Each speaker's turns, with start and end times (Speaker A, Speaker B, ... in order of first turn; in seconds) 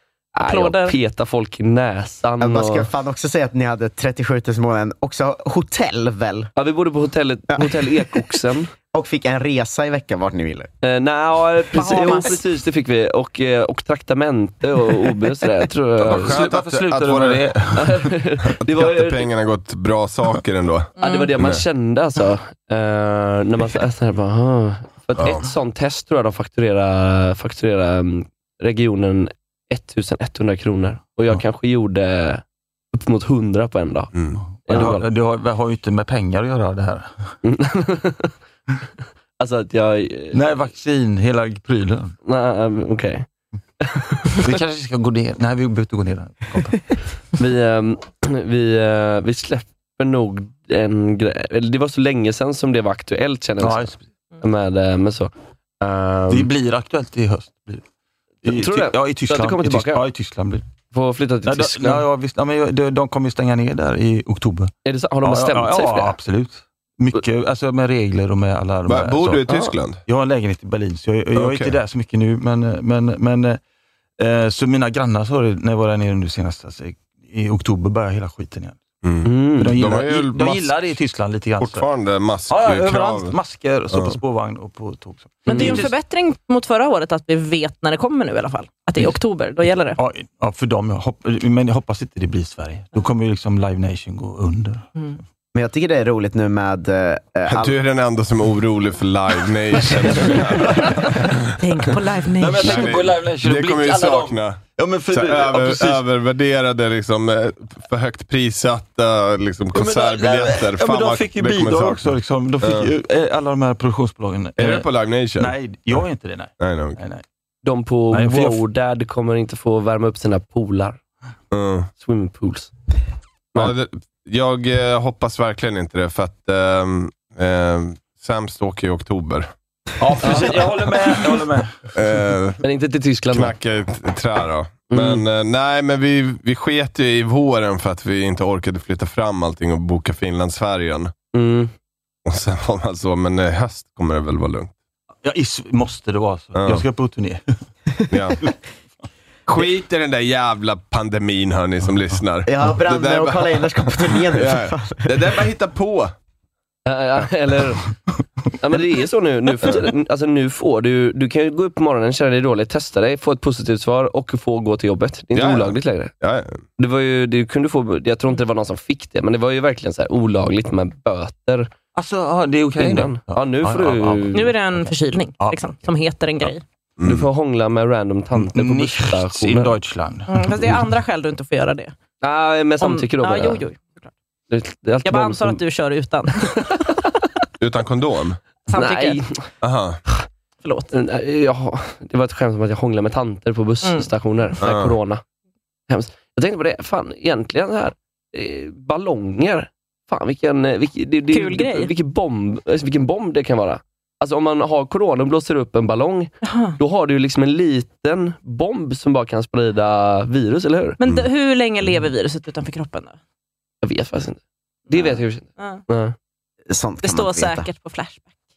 Speaker A: 0.3-2.9, 6.6-8.7, 10.8-16.4, 17.8-19.3, 21.0-34.1, 34.7-35.0, 37.4-38.3, 39.4-40.4, 42.2-43.3, 43.8-44.4, 47.4-56.5, 58.5-60.0, 60.9-62.0, 64.8-66.2, 69.5-69.7, 79.2-79.8, 85.5-85.8, 117.6-121.0, 122.0-122.7, 130.2-130.6, 132.6-133.5, 134.9-135.2, 141.3-141.7, 156.9-157.8, 158.6-166.1, 166.8-171.7, 172.8-174.5, 177.0-179.8, 182.2-183.6, 184.5-185.6, 188.7-189.4, 190.9-195.2, 195.9-211.0, 213.8-216.2
Speaker B: 0.4-1.0, 11.8-12.4, 21.0-21.3, 85.5-90.0, 95.0-95.2, 101.6-103.0, 174.3-176.6, 180.3-181.9, 182.8-184.1, 185.1-186.8, 188.7-189.4, 190.6-190.9, 193.8-194.1, 201.3-201.9, 206.4-206.8, 211.0-213.2, 214.9-215.8, 217.0-218.2
Speaker C: 2.4-6.5, 8.9-10.7, 11.8-12.3, 95.5-97.8, 152.5-155.4, 216.7-217.7
Speaker D: 16.0-17.4, 18.6-21.6, 25.2-25.4, 34.1-34.4, 68.9-70.0, 71.3-71.8, 79.0-81.0, 81.6-83.3, 83.9-84.2, 97.5-101.5, 102.6-112.9, 114.6-116.0, 116.6-117.0, 121.5-121.9, 123.6-129.5, 131.9-132.6, 133.3-141.1, 142.3-144.7, 146.6-146.8, 148.1-148.4, 149.5-156.1, 165.3-166.6, 177.0-177.3, 187.6-188.4, 189.6-190.0, 194.6-195.0
Speaker E: 16.1-18.0, 34.4-37.3, 40.3-42.1, 44.3-47.0, 53.6-54.0, 56.3-57.9, 58.4-60.6, 61.5-69.4, 70.1-73.6, 74.2-78.8, 79.6-81.8, 82.5-85.9, 90.0-94.9, 100.1-101.1, 102.4-106.0, 109.8-114.9, 115.4-117.2, 118.1-118.6, 130.0-131.9, 145.2-147.4, 171.9-175.9, 178.4-180.9